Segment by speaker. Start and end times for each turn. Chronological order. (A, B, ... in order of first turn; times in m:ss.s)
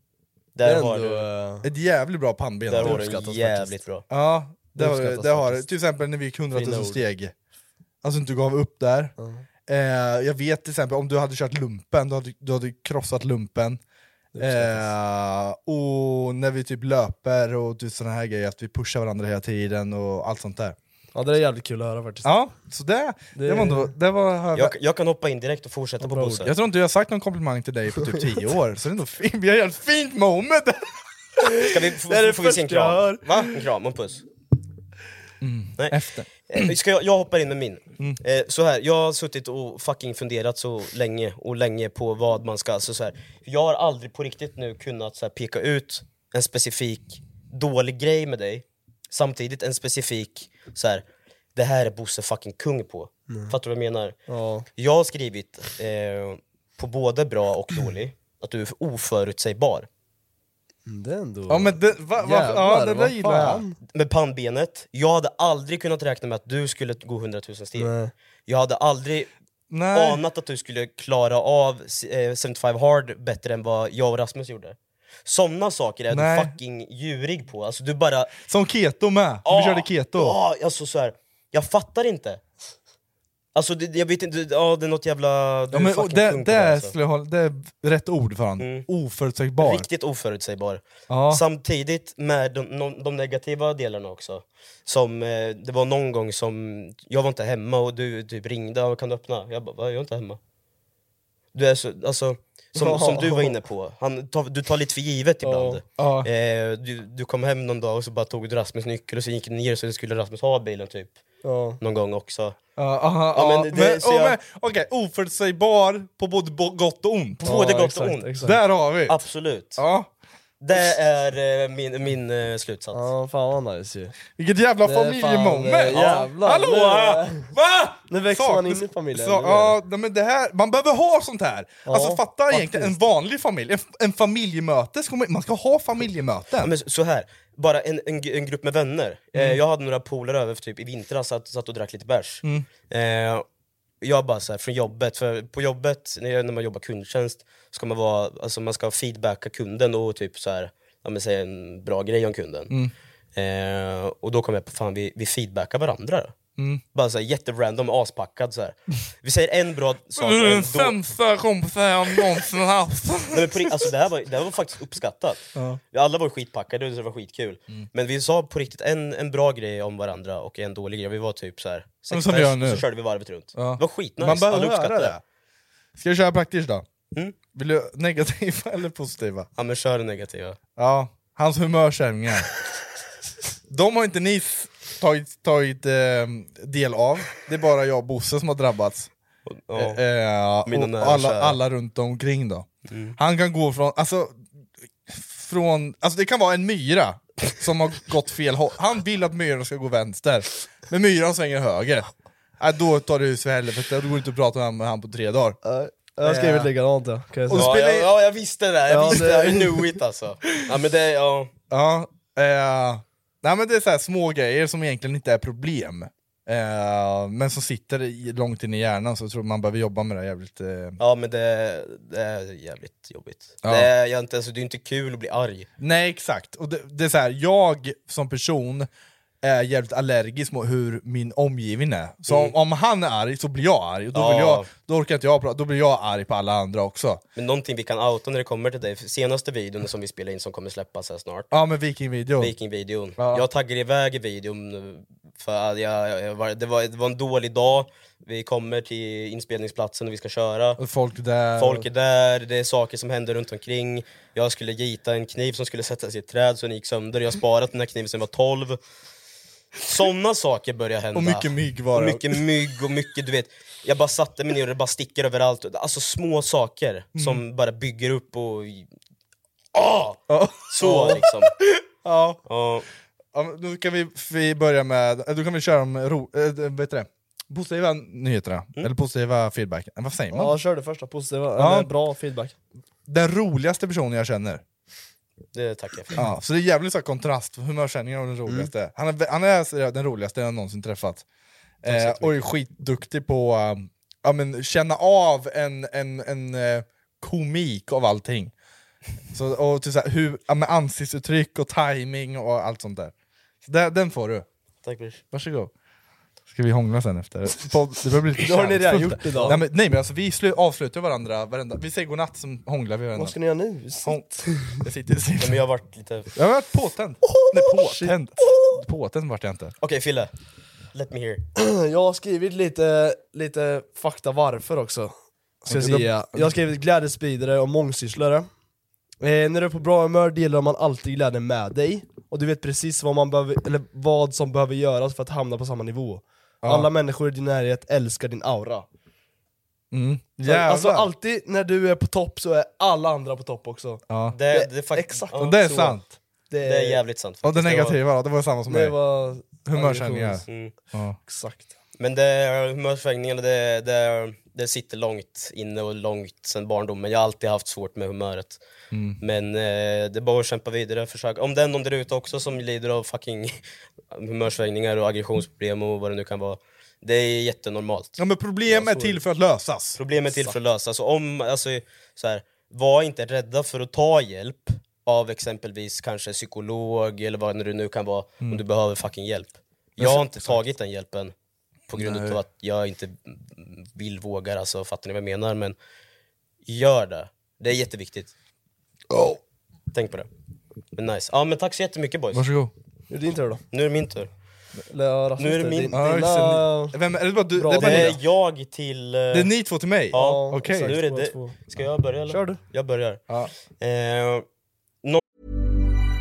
0:00.6-0:01.3 A
0:00.6-0:01.7 B
0:01.6-0:03.0 C
0:02.7-0:04.0 A
0:02.8-0:03.8 B
0:04.1-0:07.3 C
0:04.8-0:05.6 B
0:06.5-0:07.0 B
0:08.0-0:09.1 C
0:09.2-0:09.4 B
0:09.7-0:13.8 C
0:14.3-0:14.9 B
0:14.4-0:20.8 C
0:21.1-0:22.3 B
0:22.2-0:24.8 C
0:23.4-0:23.9 B
0:24.6-0:26.5 A
0:26.0-0:26.5 B
0:26.4-0:30.9 C
0:31.4-0:33.5 B
0:31.6-0:34.2 A
0:33.3-0:33.6 C
0:35.4-0:36.7 C
0:36.5-0:51.0 A
0:51.6-0:54.2 A
0:54.3-0:54.7 B
0:54.8-0:59.9 A
1:00.9-1:03.8 B
1:01.5-1:03.6 C
1:03.9-1:07.9 A
1:07.8-1:08.1 B
1:08.5-1:09.3 A
1:09.7-1:10.2 C
1:09.9-1:18.3 A
1:16.1-1:16.6 C
1:18.5-1:20.4 C
1:19.5-1:22.4 A
1:23.6-1:26.9 A
1:25.7-1:29.9 C
1:28.6-1:28.9 A
1:29.6-1:40.4 A
1:31.1-1:31.4 C
1:41.5-1:51.2 A
1:42.8-1:43.5 B
1:45.4-1:45.8 B
1:46.0-1:46.3 C
1:51.4-1:51.8 B
1:51.8-1:52.6 A
1:52.8-1:57.7 C
1:53.3-1:54.4 A
1:57.4-1:58.5 A
1:57.4-1:58.6 B
1:58.4-1:59.2 C
1:59.1-1:59.8 A
1:59.8-2:00.1 C
2:00.6-2:03.1 A
2:02.9-2:04.2 B
2:04.4-2:16.7 C
2:04.8-2:07.5 B
2:08.1-2:09.8 B
2:11.9-2:12.9 B
2:16.6-2:23.4 A
2:19.4-2:19.6 C
2:24.0-2:32.7 A
2:33.4-2:36.3 A
2:36.9-2:41.0 A
2:40.2-2:43.8 C
2:43.3-2:55.2 A
2:45.6-2:45.8 C
2:52.1-2:52.8 C
2:53.6-2:55.2 C
2:56.0-2:56.8 C
2:57.5-2:59.5 C
2:59.6-3:00.6 A
3:00.8-3:02.5 C
3:03.7-3:09.1 C
3:09.5-3:10.0 A
3:09.8-3:14.5 C
3:10.6-3:11.6 A
3:12.9-3:13.2 A
3:15.1-3:22.1 C
3:22.6-3:25.6 C
3:25.6-3:27.7 B
3:26.2-3:26.7 C
3:27.5-3:28.1 C
3:27.5-3:31.5 A
3:28.9-3:29.8 B
3:31.7-3:41.0 C
3:41.0-3:45.7 A
3:43.6-3:43.9 C
3:45.8-3:48.9 C
3:49.4-3:57.2 C
3:52.3-3:52.6 A
3:54.1-3:54.7 A
3:57.4-4:01.5 A
4:01.5-4:02.5 C
4:02.4-4:10.8 A
4:03.2-4:03.5 C
4:10.8-4:11.9 C
4:11.6-4:18.8 A
4:19.8-4:28.9 A
4:21.1-4:22.4 C
4:27.2-4:27.4 C
4:29.7-4:31.6 A
4:30.3-4:31.2 C
4:31.8-4:32.4 C
4:32.5-4:32.9 A
4:33.3-4:40.6 C
4:40.3-4:42.6 B
4:41.6-4:41.9 C
4:43.1-4:44.6 C
4:45.5-4:46.2 A
4:46.2-4:51.2 C
4:51.8-4:58.5 C
4:51.9-4:52.4 A
4:59.3-5:04.5 C
5:04.8-5:05.2 A
5:05.3-5:05.7 C
5:06.5-5:13.4 C
5:08.4-5:09.6 B
5:13.2-5:14.8 B
5:14.8-5:15.6 C
5:15.4-5:16.3 A
5:16.4-5:19.7 C
5:17.4-5:18.7 B
5:19.8-5:20.3 A
5:20.9-5:21.4 A
5:21.6-5:28.5 B
5:25.7-5:26.5 C
5:29.2-5:38.9 B
5:36.6-5:36.9 C
5:39.9-5:41.1 C
5:40.4-5:46.0 B
5:44.1-5:44.4 C
5:44.3-5:45.6 A
5:45.4-5:46.1 C
5:46.5-5:47.0 B
5:46.6-5:48.0 A
5:47.4-5:49.0 C
5:48.7-5:50.4 B
5:49.6-5:51.2 C
5:50.5-5:50.7 A
5:51.3-5:51.7 B
5:52.0-5:58.6 A
5:58.9-5:59.2 C
5:59.2-6:03.6 A
6:04.1-6:08.2 A
6:08.2-6:10.0 C
6:08.8-6:09.2 B
6:10.0-6:21.3 A
6:20.0-6:20.6 C
6:21.9-6:25.8 A
6:21.9-6:22.4 C
6:26.7-6:28.3 A
6:29.1-6:29.4 C
6:29.9-6:30.3 A
6:31.0-6:32.4 A
6:32.3-6:32.7 C
6:33.1-6:33.6 B
6:33.7-6:34.3 A
6:34.9-6:37.0 B
6:35.4-6:35.9 A
6:35.9-6:38.2 C
6:37.5-6:38.2 B
6:37.7-6:39.5 A
6:39.3-6:41.0 C
6:40.1-6:43.2 A
6:40.1-6:41.6 B
6:42.3-6:42.6 B
6:43.8-6:44.4 A